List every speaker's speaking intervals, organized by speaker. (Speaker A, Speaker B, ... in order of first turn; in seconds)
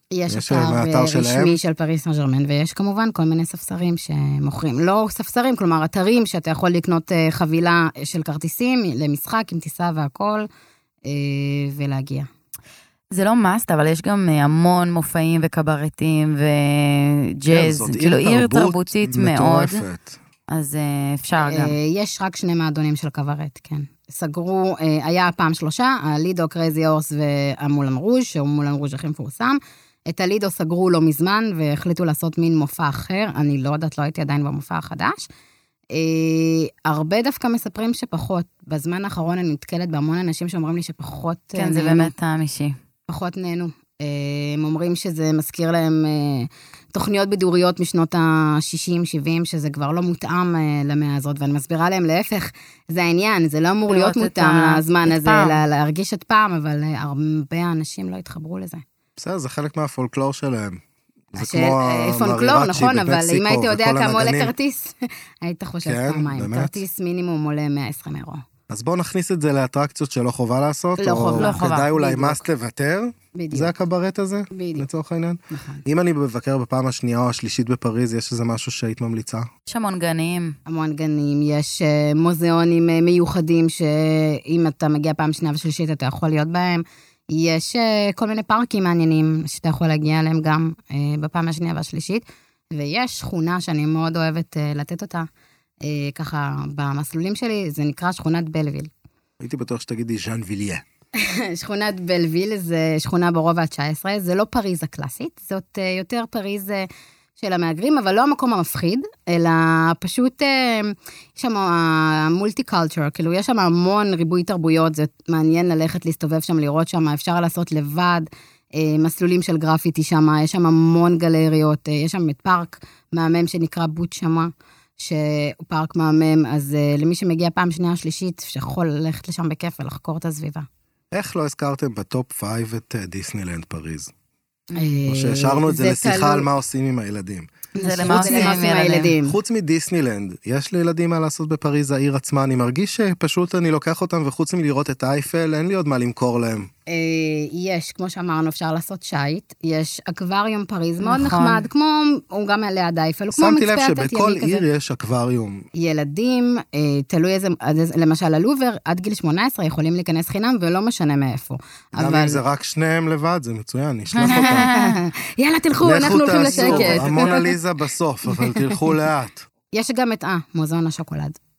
Speaker A: 0.1-10.5, 11.1-12.3, 21.4-35.2, 35.9-42.1, 43.1-58.8, 61.4-68.4, 71.0-72.5, 73.3-73.7, 74.5-74.9, 75.5-75.8, 80.7-95.3, 95.8-98.9, 101.1-130.7, 134.8-136.5, 137.8-139.4, 146.9-154.7, 155.8-162.4, 164.2-167.5, 168.3-168.9, 169.7-171.4
Speaker B: 0.3-1.6, 17.5-20.2, 59.2-60.8, 61.3-64.5, 65.8-66.8, 68.7-79.5, 99.4-100.8, 131.1-134.1, 135.1-137.5, 138.1-138.6, 139.2-146.7, 153.3-155.7, 162.0-164.7, 165.8-169.5
Speaker C: 13.1-19.8, 20.5-21.8, 41.6-42.8, 53.9-55.6, 71.4-71.9, 79.7-80.5, 137.8-139.2, 151.0-151.7, 164.2-165.0, 166.4-167.4